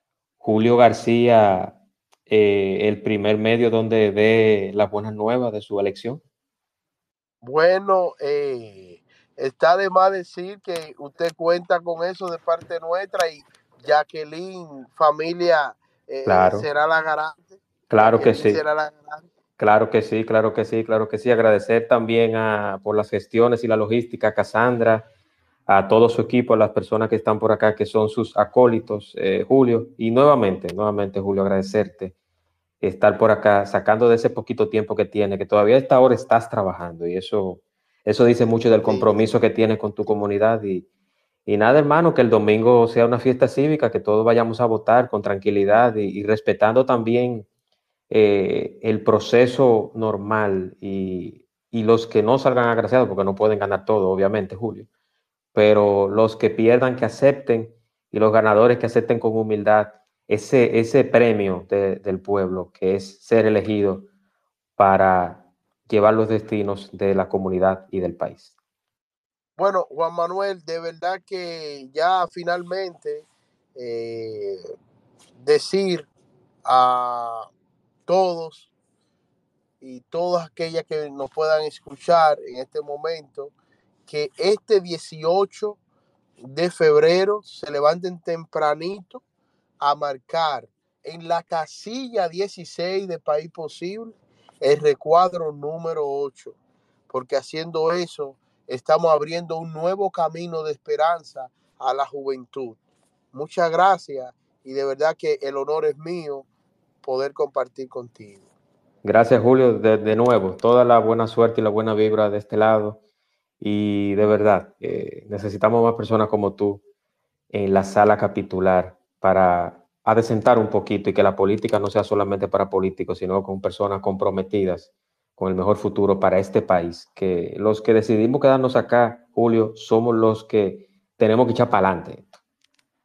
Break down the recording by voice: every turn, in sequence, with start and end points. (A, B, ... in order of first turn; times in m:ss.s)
0:00.4-0:06.2 A
0:07.4-0:19.2 B
0:16.2-0:16.7 A
0:17.9-0:18.6 A
0:19.6-0:25.1 A
0:25.7-0:32.1 A
0:32.8-0:40.8 A
0:38.8-0:39.3 B
0:41.4-0:47.5 A
0:48.1-0:54.9 A
0:55.5-1:04.1 A
1:04.8-1:08.5 A
1:09.6-1:14.6 B
1:15.4-1:16.1 B
1:16.6-1:17.5 B
1:18.0-1:18.7 B
1:19.8-1:23.5 B
1:24.0-1:25.8 B
1:26.4-1:29.2 B
1:29.8-1:36.6 B
1:37.1-1:42.8 B
1:43.3-1:46.5 B
1:47.0-1:48.5 B
1:49.0-1:53.0 A
1:53.6-1:56.8 A
1:57.5-2:12.4 A